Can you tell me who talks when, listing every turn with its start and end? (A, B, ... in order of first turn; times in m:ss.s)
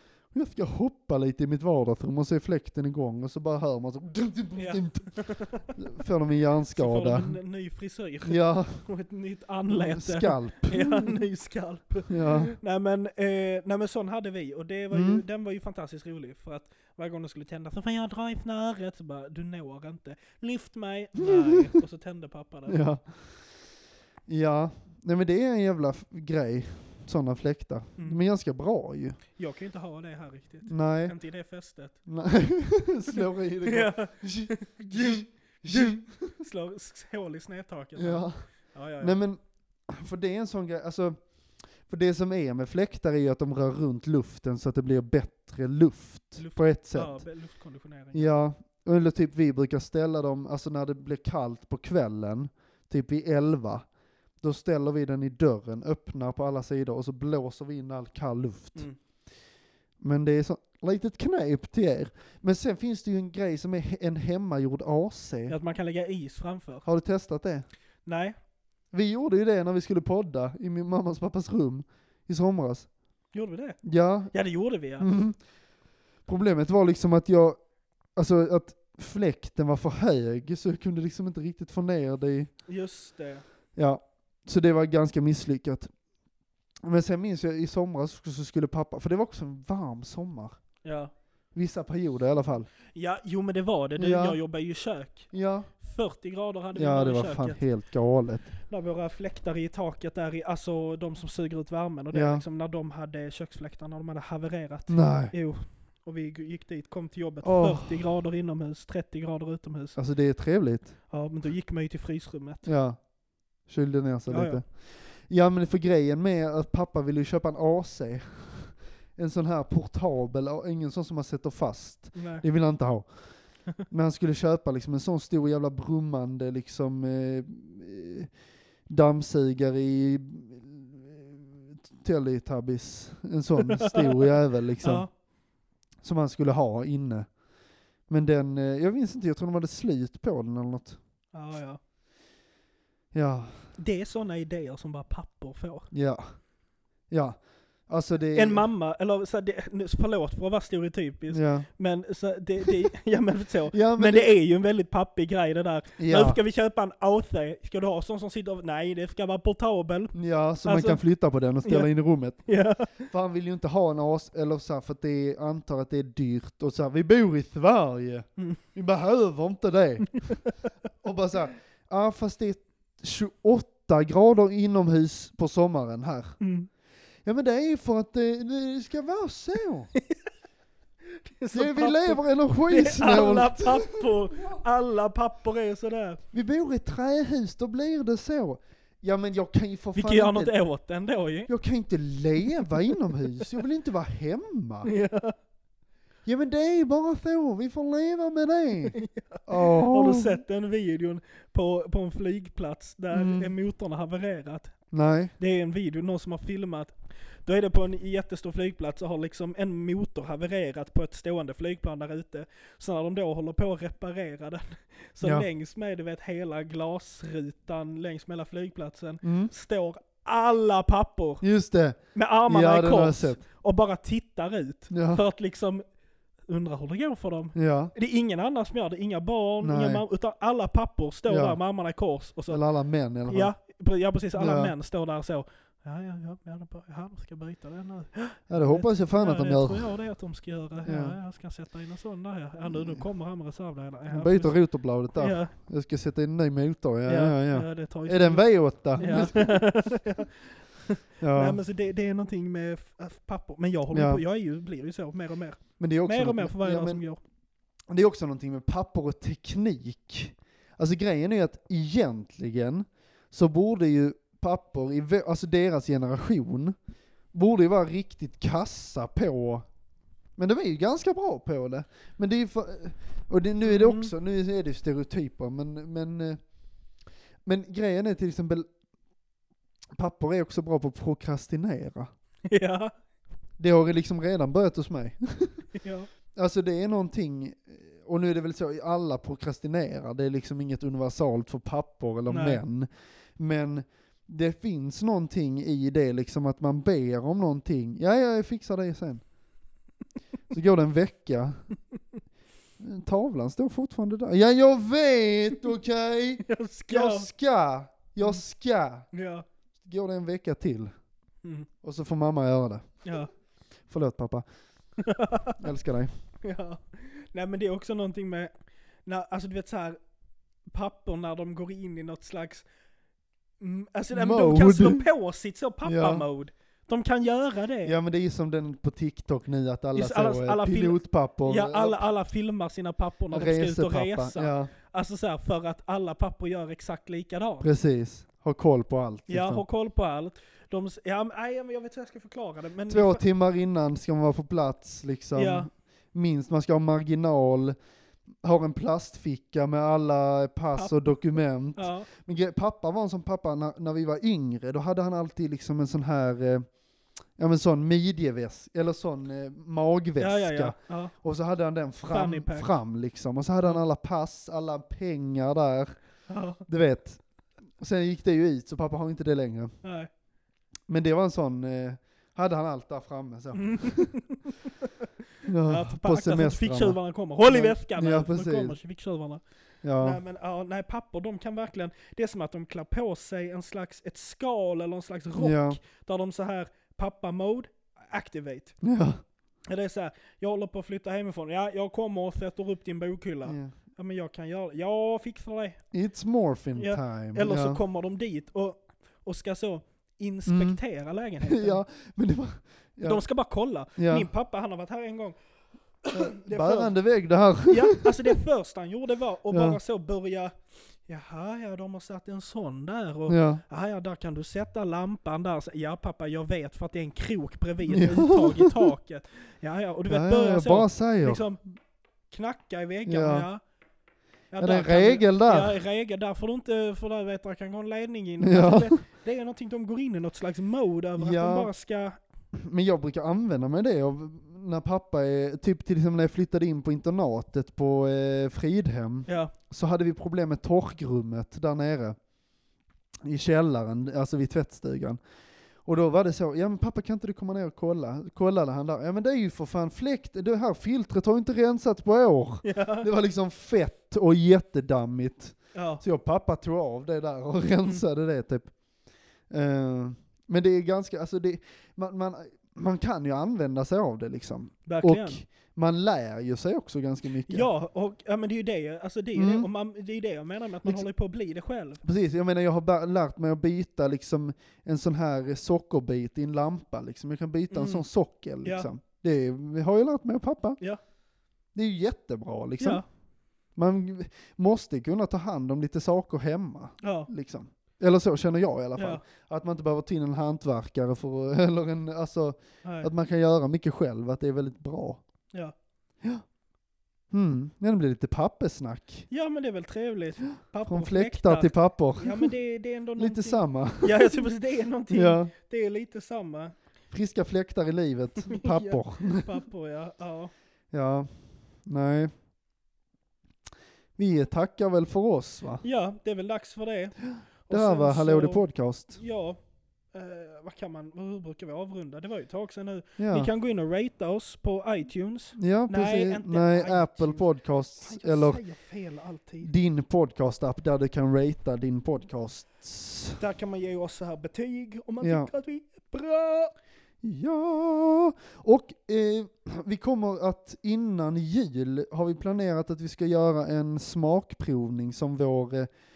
0:00.3-0:07.4 A
0:04.6-0:05.7 B
0:06.7-0:22.8 B
0:08.2-0:08.8 A
0:09.7-0:11.2 A
0:12.1-0:12.5 A
0:14.9-0:15.2 A
0:21.2-0:21.7 A
0:22.7-0:23.5 A
0:24.3-0:29.2 A
0:29.4-0:32.0 B
0:30.7-0:31.2 A
0:32.0-0:36.3 A
0:33.2-0:39.2 B
0:38.0-0:47.2 A
0:46.4-0:48.3 B
0:48.1-0:53.9 A
0:54.4-0:58.9 A
1:00.0-1:05.5 A
1:05.5-1:06.8 B
1:06.8-1:07.7 A
1:08.0-1:08.4 B
1:08.9-1:12.9 A
1:13.3-1:15.1 B
1:13.8-1:14.3 A
1:15.0-1:15.4 A
1:16.2-1:17.6 A
1:18.1-1:22.5 A
1:22.7-1:23.4 B
1:23.8-1:25.9 A
1:26.8-1:30.5 A
1:30.8-1:31.1 B
1:31.5-1:32.7 A
1:32.9-1:37.6 B
1:34.0-1:34.4 A
1:35.3-1:35.7 A
1:36.7-1:38.5 A
1:38.7-1:50.0 B
1:42.1-1:42.4 A
1:44.9-1:45.3 A
1:47.4-1:47.9 A
1:50.0-1:51.0 A
1:51.1-1:52.6 B
1:52.6-1:53.1 A
1:53.6-2:08.3 A
1:54.3-1:54.6 B
2:02.1-2:02.4 B
2:08.9-2:15.1 A
2:13.7-2:14.3 B
2:14.8-2:15.1 B
2:16.0-2:17.3 A
2:18.1-2:21.0 A
2:21.3-2:21.8 B
2:23.1-2:23.6 A
2:23.8-2:25.9 B
2:25.9-2:26.3 A
2:27.1-2:28.7 A
2:28.3-2:41.0 B
2:31.3-2:31.7 A
2:33.7-2:34.3 A
2:36.0-2:36.4 A
2:40.1-2:42.5 A
2:41.6-2:41.9 B
2:42.4-2:43.1 B
2:43.0-2:50.4 A
2:51.0-2:56.4 A
2:56.4-2:56.7 B
2:57.2-2:59.9 A
3:00.0-3:00.2 B
3:01.2-3:06.2 B
3:01.5-3:04.6 A
3:06.3-3:10.5 A
3:09.9-3:11.5 B
3:11.5-3:14.9 A
3:14.8-3:15.4 B
3:16.2-3:20.4 A
3:18.9-3:24.8 B
3:23.1-3:23.5 A
3:24.9-3:25.3 A
3:25.4-3:41.4 B
3:35.2-3:35.5 A
3:39.2-3:39.5 A
3:41.4-3:43.4 A
3:42.1-3:45.8 B
3:44.9-3:45.2 A
3:46.5-3:52.6 B
3:47.5-3:47.9 A
3:49.6-3:50.0 A
3:51.3-3:51.6 A
3:52.5-3:53.5 A
3:53.3-4:04.6 B
3:54.4-3:54.7 A
3:58.5-3:59.9 A
4:00.8-4:01.2 A
4:02.6-4:03.0 A
4:04.1-4:09.9 A
4:05.2-4:05.5 B
4:07.1-4:17.2 B
4:11.2-4:11.6 A
4:13.9-4:14.2 A
4:15.8-4:17.0 A
4:17.9-4:26.8 A
4:27.3-4:29.6 A
4:30.4-4:36.4 A
4:33.6-4:34.1 B
4:37.4-4:38.7 A
4:40.0-4:42.1 A
4:42.5-4:42.9 B
4:43.6-4:45.7 A
4:45.8-4:46.1 B
4:46.3-4:59.2 A
4:52.3-4:52.6 B
5:00.5-5:01.6 A
5:02.8-5:09.1 A
5:06.4-5:07.3 B
5:09.1-5:09.4 B
5:09.8-5:10.9 A
5:11.8-5:13.1 A
5:13.0-5:13.3 B
5:13.9-5:14.4 A
5:15.0-5:15.6 B
5:15.6-5:16.1 A
5:16.4-5:18.5 B
5:19.0-5:20.0 B
5:20.7-5:22.6 B
5:23.6-5:28.0 B
5:24.1-5:25.0 A
5:25.8-5:26.2 A
5:27.8-5:32.0 A
5:29.9-5:37.7 B
5:33.3-5:34.7 A
5:37.6-5:39.6 A
5:39.3-5:43.2 B
5:42.9-5:47.8 A
5:45.3-5:45.7 B
5:48.4-5:56.7 A
5:51.8-5:52.1 B
5:57.4-6:05.9 A
6:00.2-6:01.1 B
6:02.1-6:02.7 B
6:06.3-6:06.6 B
6:06.6-6:07.2 A
6:07.8-6:09.7 A
6:09.8-6:10.1 B
6:10.9-6:14.2 A
6:13.6-6:15.1 B
6:15.4-6:18.8 A
6:15.6-6:19.4 B
6:19.8-6:20.2 A
6:20.0-6:28.8 B
6:25.4-6:25.8 A
6:28.8-6:29.2 A
6:29.7-6:35.8 B
6:33.4-6:33.7 A
6:35.9-6:37.8 A
6:36.8-6:41.8 B
6:40.5-6:40.8 A
6:41.4-6:43.2 A
6:43.0-6:45.4 B
6:44.0-6:44.3 A
6:46.0-6:46.9 B
6:46.1-6:48.3 A
6:47.7-7:01.6 B
6:49.5-6:49.8 A
6:53.3-6:53.6 A
6:57.9-6:58.8 A
7:00.1-7:01.4 A
7:02.3-7:03.6 B
7:03.0-7:03.5 A
7:04.5-7:12.2 B
7:04.6-7:05.8 A
7:08.4-7:08.9 A
7:11.2-7:11.7 A
7:12.5-7:22.2 A
7:19.3-7:19.5 B
7:23.2-7:25.2 A
7:25.8-7:38.7 A
7:32.6-7:33.1 B
7:35.7-7:36.0 B
7:39.5-7:47.7 A
7:44.9-7:45.4 B
7:47.5-7:52.0 B
7:49.3-7:49.7 A
7:52.0-8:00.8 A
7:57.7-7:58.0 B
7:58.6-7:58.9 B
8:01.7-8:03.0 A
8:03.7-8:15.2 A
8:07.0-8:07.3 B
8:09.0-8:09.2 B
8:12.8-8:13.1 B
8:17.3-8:19.3 A
8:19.3-8:26.7 B
8:20.9-8:22.5 A
8:23.2-8:24.4 A
8:25.1-8:25.5 A
8:27.1-8:29.5 A
8:28.4-8:30.5 B
8:30.9-8:32.3 A
8:34.2-8:35.8 A
8:35.8-8:39.6 B
8:37.3-8:39.2 A
8:40.1-8:49.7 B
8:43.2-8:43.5 A
8:45.6-8:48.6 A
8:49.6-8:53.4 A
8:53.4-8:56.7 B
8:55.2-8:55.5 A
8:57.2-9:05.9 A